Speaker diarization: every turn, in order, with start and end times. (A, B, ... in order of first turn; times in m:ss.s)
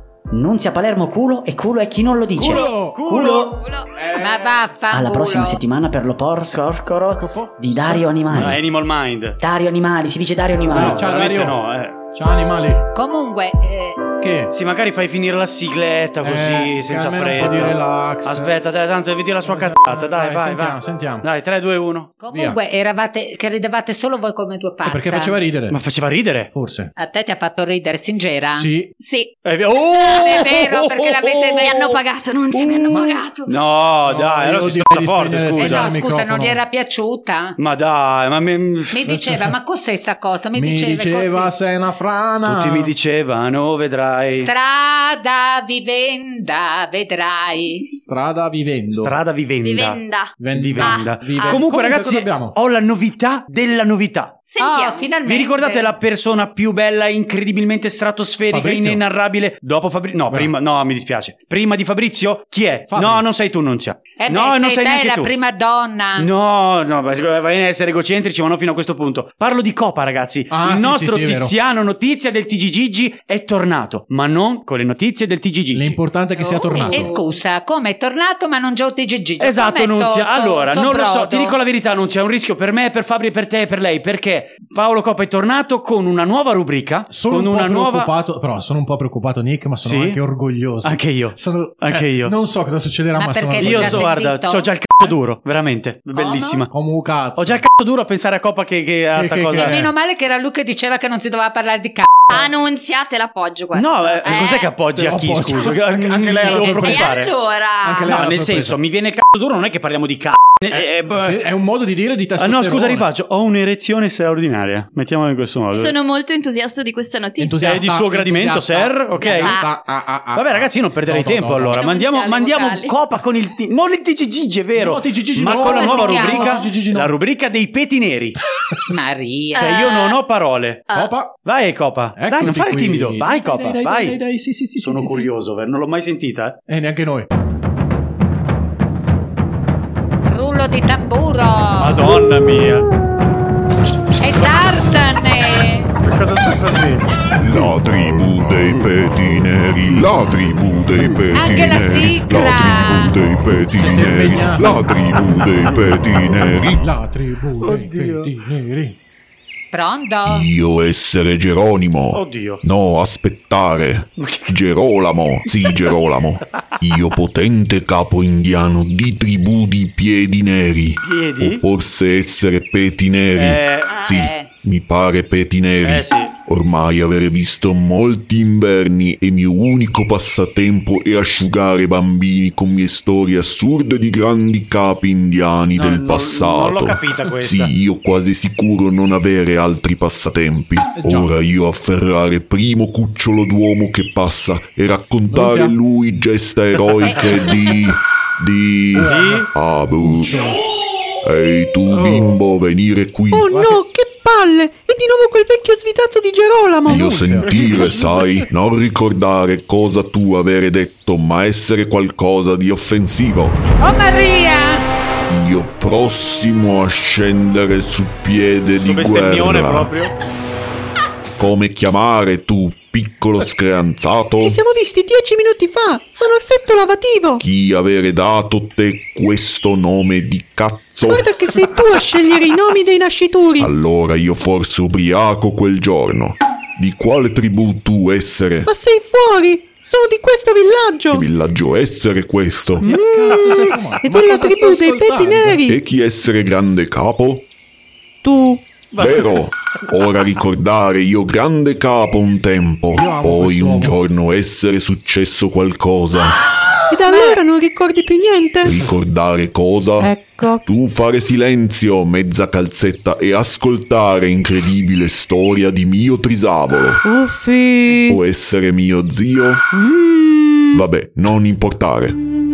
0:00.3-0:03.6 A
0:02.4-0:03.6 B
0:02.4-0:03.0 C
0:03.6-0:03.9 D
0:03.9-0:04.6 C
0:04.1-0:05.6 E
0:04.9-0:08.6 A
0:07.2-0:08.4 C
0:08.3-0:09.4 B
0:09.4-0:11.0 A
0:10.7-0:11.6 C
0:10.7-0:12.0 B
0:12.1-0:12.8 C
0:12.9-0:14.0 E
0:14.2-0:14.5 C
0:14.5-0:22.2 B
0:16.2-0:18.5 C
0:19.4-0:21.2 C
0:22.2-0:25.4 E
0:22.3-0:22.6 C
0:24.8-0:25.8 C
0:25.7-0:26.5 B
0:26.5-0:26.9 C
0:27.0-0:28.7 E
0:28.5-0:28.9 C
0:29.0-0:29.3 D
0:29.4-0:32.0 B
0:30.1-0:31.8 E
0:31.6-0:33.4 D
0:32.6-0:35.9 B
0:32.9-0:33.2 C
0:34.0-0:36.6 C
0:35.5-0:37.6 E
0:37.6-0:39.0 B
0:38.9-0:41.5 E
0:39.1-0:39.6 C
0:40.5-0:42.9 C
0:42.4-0:44.5 B
0:44.3-0:47.8 E
0:47.9-0:49.1 C
0:48.9-0:50.0 B
0:49.6-0:51.6 D
0:50.4-0:52.5 C
0:50.5-0:54.4 B
0:54.5-0:55.1 D
0:54.6-0:55.9 E
0:55.2-1:05.3 B
0:58.4-0:59.0 C
1:02.9-1:03.2 C
1:04.2-1:06.3 E
1:06.2-1:16.0 B
1:10.5-1:11.5 C
1:15.7-1:17.2 C
1:16.4-1:21.6 E
1:19.4-1:28.1 B
1:27.1-1:34.1 C
1:29.8-1:30.2 B
1:30.8-1:32.3 B
1:33.2-1:34.7 E
1:33.6-1:36.7 B
1:36.2-1:36.5 D
1:36.7-1:37.6 C
1:37.4-1:39.8 B
1:39.1-1:39.9 C
1:39.5-1:42.4 E
1:42.3-1:44.7 D
1:43.7-1:47.3 B
1:44.9-1:47.1 C
1:46.4-1:48.2 D
1:47.8-1:48.8 C
1:48.1-1:51.4 B
1:51.1-1:53.1 C
1:52.4-1:55.9 B
1:55.7-1:57.8 D
1:57.4-2:01.8 C
1:57.6-1:59.6 B
1:59.2-1:59.7 D
2:00.3-2:08.4 B
2:01.8-2:02.9 D
2:04.7-2:07.1 C
2:05.5-2:06.6 E
2:08.9-2:09.9 E
2:09.5-2:10.2 D
2:09.6-2:10.9 B
2:10.9-2:11.3 C
2:11.4-2:14.2 B
2:12.2-2:15.3 C
2:14.8-2:16.6 B
2:16.7-2:17.3 C
2:20.3-2:22.0 E
2:21.8-2:22.9 B
2:24.2-2:25.9 E
2:24.4-2:24.9 B
2:26.0-2:27.0 B
2:27.3-2:36.8 F
2:31.3-2:33.1 E
2:33.8-2:34.8 C
2:36.8-2:38.9 C
2:37.6-2:38.1 B
2:39.7-2:40.5 E
2:40.2-3:20.4 F
2:42.1-2:42.6 B
2:44.2-2:44.6 B
2:45.5-2:45.9 B
2:51.0-2:51.6 B
2:53.3-2:53.9 B
2:53.9-2:54.3 D
2:54.2-2:54.5 E
2:55.8-2:56.3 B
3:05.7-3:07.7 B
3:10.9-3:11.3 C
3:15.3-3:15.8 C
3:18.9-3:19.5 C
3:19.0-3:19.5 B
3:20.0-3:20.6 C
3:21.2-3:23.5 F
3:21.9-3:22.4 B
3:23.3-3:27.1 G
3:23.5-3:23.8 C
3:26.9-3:28.5 C
3:26.9-3:33.6 F
3:27.5-3:27.8 B
3:33.8-3:34.8 E
3:35.3-3:39.9 F
3:38.8-3:40.1 B
3:41.4-3:44.6 F
3:44.4-3:47.4 G
3:47.4-3:51.4 F
3:51.0-3:53.7 G
3:53.6-3:58.7 F
3:58.6-4:01.2 G
4:01.1-4:02.9 F
4:02.8-4:05.8 G
4:02.8-4:03.6 B
4:03.0-4:05.6 C
4:05.7-4:07.4 F
4:08.2-4:08.6 G
4:08.9-4:09.4 B
4:09.0-4:16.4 F
4:12.9-4:14.0 C
4:16.9-4:18.8 G
4:18.6-4:27.0 F
4:20.0-4:20.6 G
4:27.0-4:28.2 G
4:28.0-4:29.6 F
4:29.7-4:30.8 G
4:30.7-4:32.2 F